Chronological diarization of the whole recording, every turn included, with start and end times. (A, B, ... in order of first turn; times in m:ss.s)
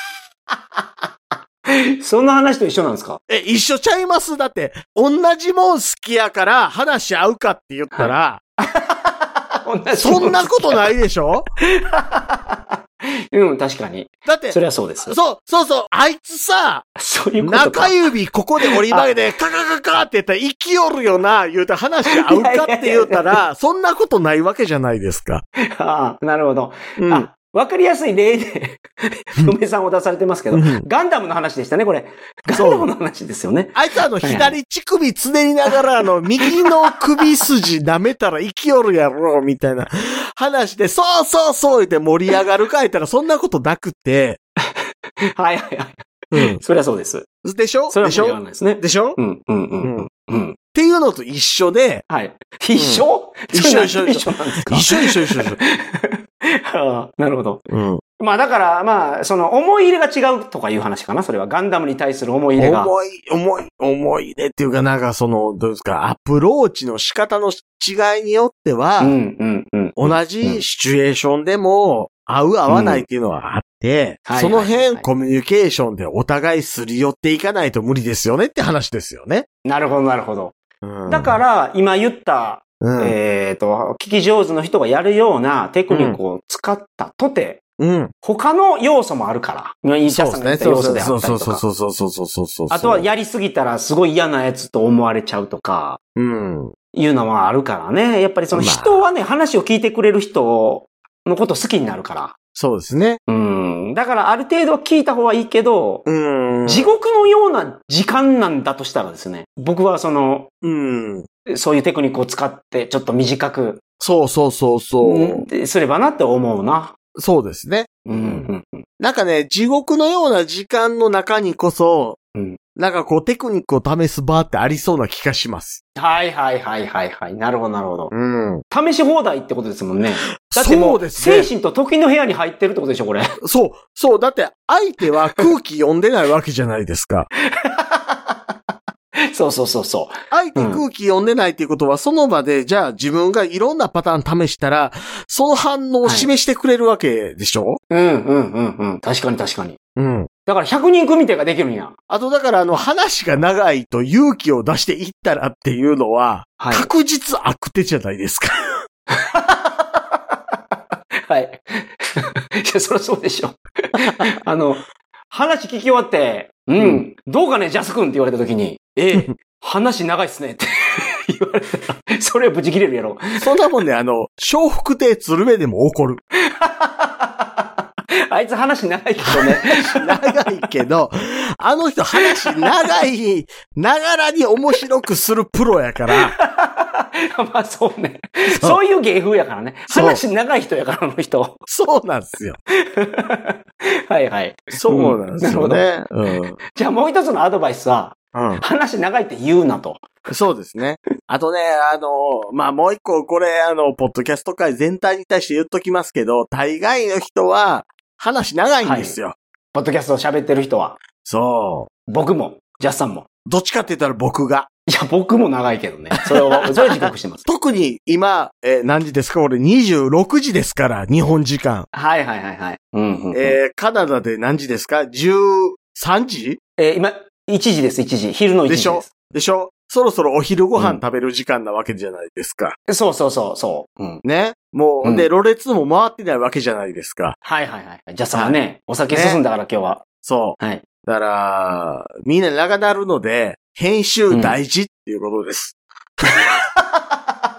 0:02.0-0:03.2 A
0:03.3-0:08.4 B
0:08.6-0:10.9 A
0:10.0-0:11.5 B
0:11.7-0:12.6 A
0:13.3-0:15.2 A
0:14.3-0:16.9 B
0:17.0-0:19.1 A
0:17.4-0:25.4 B
0:22.1-0:23.4 A
0:25.7-0:34.6 A
0:27.0-0:27.3 B
0:30.5-0:30.8 B
0:32.5-0:32.9 B
0:33.8-0:44.4 B
0:36.4-0:37.3 A
0:45.3-0:47.3 A
0:46.3-0:46.6 B
0:47.4-0:49.2 B
0:47.9-0:50.6 A
0:49.8-0:50.1 B
0:50.8-0:52.0 B
0:52.1-0:57.6 A
0:52.8-0:55.6 B
0:57.7-0:58.0 B
0:58.2-1:02.9 A
1:02.6-1:09.2 B
1:09.0-1:10.6 A
1:10.0-1:19.5 B
1:12.7-1:13.0 A
1:14.3-1:15.0 A
1:19.6-1:20.6 A
1:20.8-1:21.4 B
1:21.1-1:27.6 A
1:22.8-1:23.2 B
1:25.9-1:26.2 B
1:27.8-1:28.1 B
1:28.2-1:31.6 A
1:30.1-1:33.1 B
1:32.7-1:36.0 A
1:36.2-1:36.7 B
1:36.9-1:42.4 A
1:38.5-1:39.1 B
1:42.5-1:43.2 B
1:43.3-1:46.1 A
1:46.1-1:46.9 B
1:46.7-1:50.5 A
1:50.6-1:51.3 B
1:51.5-1:53.8 A
1:54.0-1:55.5 B
1:55.0-1:56.9 A
1:57.2-1:58.5 B
1:58.1-1:58.8 A
1:59.0-2:02.2 B
2:02.8-2:05.8 B
2:06.0-2:08.1 A
2:08.1-2:08.6 B
2:08.7-2:13.3 A
2:10.5-2:11.5 B
2:13.4-2:17.3 B
2:17.6-2:18.4 A
2:19.3-2:20.8 A
2:20.3-2:27.8 B
2:26.0-2:26.3 A
2:27.9-2:29.8 A
2:30.0-2:30.3 B
2:30.5-2:31.9 A
2:32.1-2:38.7 B
2:36.6-2:36.9 A
2:39.1-2:40.2 A
2:41.3-2:53.5 A
2:44.0-2:44.2 B
2:46.8-2:47.0 B
2:53.4-2:56.2 B
2:56.5-2:57.7 A
2:58.3-3:00.6 A
2:59.3-3:06.3 B
3:02.2-3:02.9 A
3:06.1-3:11.6 A
3:09.9-3:10.2 B
3:11.7-3:12.6 B
3:12.9-3:15.9 A
3:14.7-3:16.6 B
3:16.8-3:20.1 A
3:18.3-3:18.6 B
3:20.3-3:29.4 B
3:28.8-3:29.2 A
3:29.7-3:31.0 A
3:31.2-3:31.9 B
3:32.1-3:33.3 A
3:33.5-3:34.7 B
3:34.9-3:37.4 A
3:36.2-3:41.9 B
3:41.9-3:43.6 A
3:43.3-3:46.6 B
3:46.8-3:49.1 A
3:48.7-3:52.8 B
3:50.8-3:51.0 A
3:52.9-3:54.2 A
3:54.2-3:57.4 B
3:55.0-3:55.3 A
3:57.4-4:00.0 A
3:58.3-3:58.6 B
3:59.1-3:59.4 B
4:00.2-4:05.8 B
4:04.3-4:04.6 A
4:06.3-4:07.2 A